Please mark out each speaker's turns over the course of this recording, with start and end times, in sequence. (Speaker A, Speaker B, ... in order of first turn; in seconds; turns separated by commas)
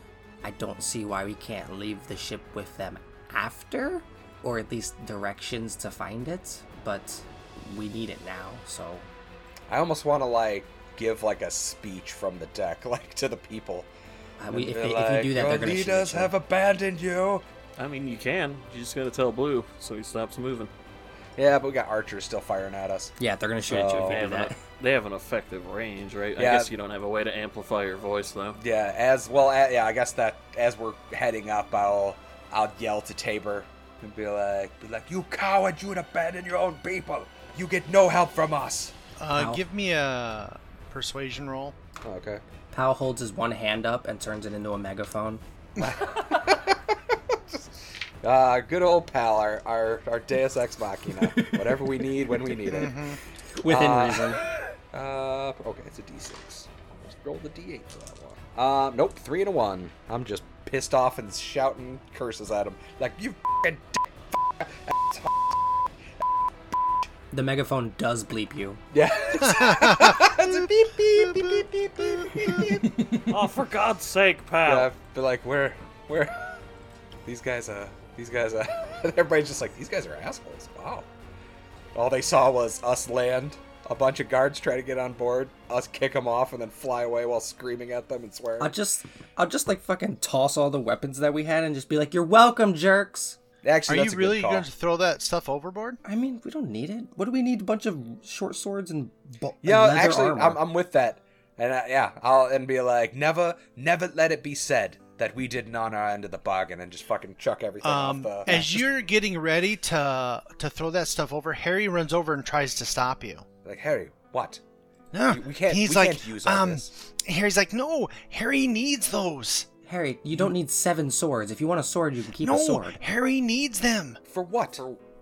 Speaker A: 0.4-9.1, Speaker B: 9.7-13.9, Speaker A: 14.4-16.3, Speaker B: 14.5-17.4, Speaker C: 17.8-20.7, Speaker B: 21.4-23.1, Speaker A: 23.2-24.6, Speaker B: 23.7-24.2, Speaker C: 23.7-28.6, Speaker B: 26.4-26.7, Speaker B: 28.6-39.0, Speaker D: 39.2-41.8, Speaker A: 39.3-39.6, Speaker B: 42.0-42.4, Speaker A: 42.7-45.4, Speaker B: 45.8-47.7, Speaker B: 48.2-53.0, Speaker D: 52.7-53.2, Speaker A: 53.5-54.4, Speaker B: 53.6-65.6, Speaker A: 67.3-68.8, Speaker B: 68.9-72.9, Speaker D: 69.4-70.6, Speaker D: 71.2-71.6, Speaker A: 72.6-73.3, Speaker C: 73.3-74.9, Speaker B: 74.7-76.6, Speaker B: 77.2-81.1, Speaker B: 81.9-88.7, Speaker A: 88.6-93.4, Speaker B: 93.6-94.7, Speaker D: 93.9-96.0, Speaker A: 96.0-100.6, Speaker B: 99.6-108.7, Speaker D: 107.8-113.5, Speaker A: 108.5-108.8, Speaker B: 113.6-114.6, Speaker D: 115.1-119.7, Speaker B: 115.3-116.9, Speaker A: 119.9-123.0, Speaker D: 122.4-124.2, Speaker B: 124.3-124.8